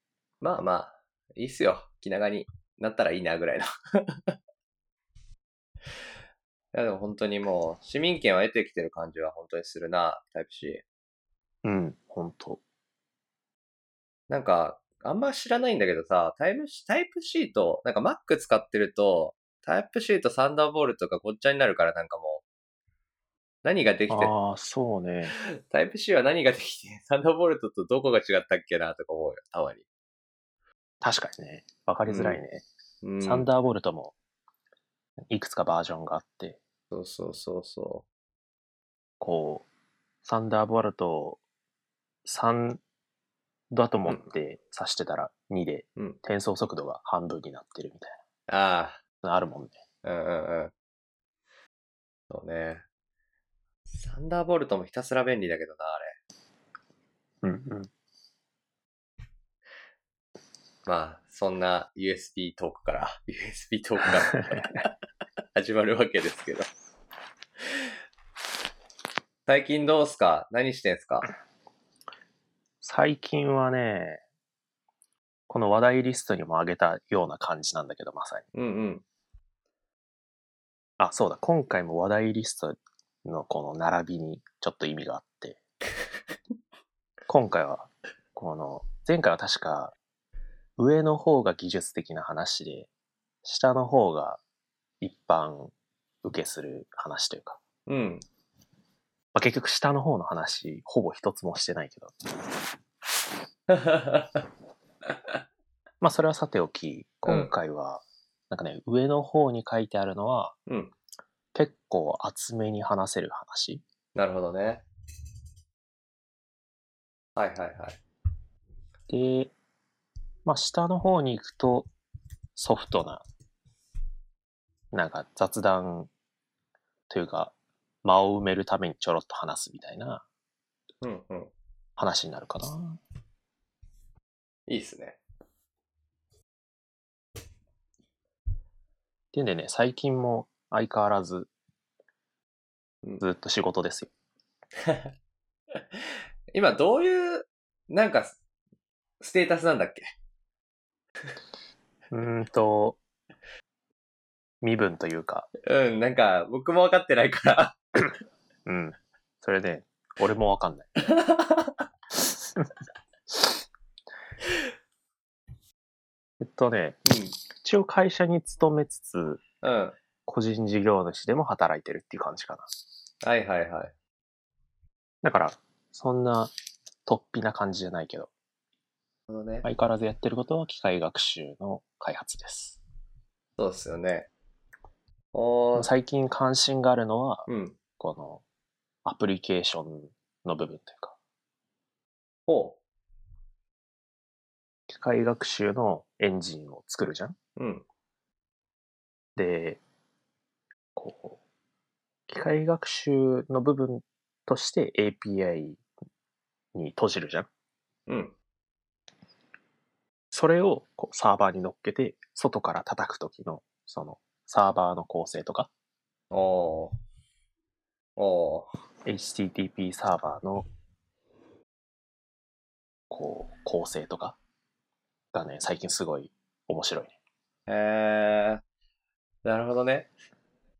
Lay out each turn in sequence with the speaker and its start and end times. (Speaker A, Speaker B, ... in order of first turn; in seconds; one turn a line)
Speaker A: 0.4-4.3
Speaker A: 6.7-10.8
Speaker B: 11.6-12.6
Speaker A: 14.3-22.4
Speaker A: 23.6-24.3
Speaker B: 24.1-25.3
Speaker A: 25.3-29.8
Speaker B: 31.0-32.6
Speaker A: 32.1-32.4
Speaker A: 33.0-33.5
Speaker B: 33.2-34.1
Speaker B: 35.3-36.6
Speaker A: 36.9-38.0
Speaker B: 39.2-39.6
Speaker B: 40.2-41.4
Speaker B: 42.2-42.8
Speaker B: 43.7-48.1
Speaker A: 48.5-49.0
Speaker B: 49.2-49.8
Speaker A: 50.0-50.7
Speaker A: 52.3-52.8
Speaker A: 54.0-56.2
Speaker B: 57.4-57.9
Speaker A: 60.9-64.9
Speaker A: 65.5-66.7
Speaker A: 69.5-71.3
Speaker B: 72.8-74.2
Speaker B: 75.5-78.5
Speaker A: 78.5-79.0
Speaker B: 81.0-85.6
Speaker B: 87.3-89.9
Speaker B: 90.8-92.9
Speaker B: 93.4-94.4
Speaker B: 95.0-97.6
Speaker A: 97.9-98.2
Speaker B: 99.3-102.2
Speaker A: 103.7-104.4
Speaker B: 106.0-110.5
Speaker A: 110.7-110.9
Speaker B: 111.5-113.8
Speaker A: 114.1-114.8
Speaker A: 117.3-118.0
Speaker B: 119.1-119.5
Speaker B: 120.4-121.9
Speaker B: 122.5-123.2
Speaker B: 124.9-126.1
Speaker B: 127.1-130.2
Speaker A: 131.0-131.5
Speaker B: 132.0-133.0
Speaker A: 134.7-135.2
Speaker B: 139.3-141.5
Speaker B: 143.2-144.1
Speaker A: 144.8-145.1
Speaker A: 145.9-148.4
Speaker A: 149.2-150.1
Speaker B: 152.1-153.0
Speaker B: 154.6-155.5
Speaker A: 155.6-157.8
Speaker B: 158.7-160.9
Speaker A: 161.2-161.7
Speaker B: 166.4-167.0
Speaker A: 167.1-167.3
Speaker B: 167.6-169.4
Speaker A: 169.6-170.0
Speaker B: 170.3-172.7
Speaker A: 173.2-173.9
Speaker B: 175.2-176.5
Speaker B: 177.1-178.3
Speaker A: 179.3-179.7
Speaker B: 179.6-182.8
Speaker A: 183.6-184.3
Speaker A: 185.3-185.9
Speaker B: 185.8-187.5
Speaker A: 187.5-187.8
Speaker B: 188.0-188.4
Speaker B: 189.0-191.2
Speaker A: 192.5-192.8
Speaker B: 194.9-197.3
Speaker A: 197.6-197.8
Speaker B: 199.3-199.8
Speaker B: 200.9-201.4
Speaker B: 202.3-205.8
Speaker B: 206.7-207.5
Speaker A: 208.1-208.3
Speaker B: 210.3-215.7
Speaker A: 216.3-216.9
Speaker A: 218.2-218.7
Speaker B: 219.0-220.7
Speaker B: 223.1-224.4
Speaker B: 225.3-227.1
Speaker A: 227.7-228.6
Speaker A: 229.4-230.1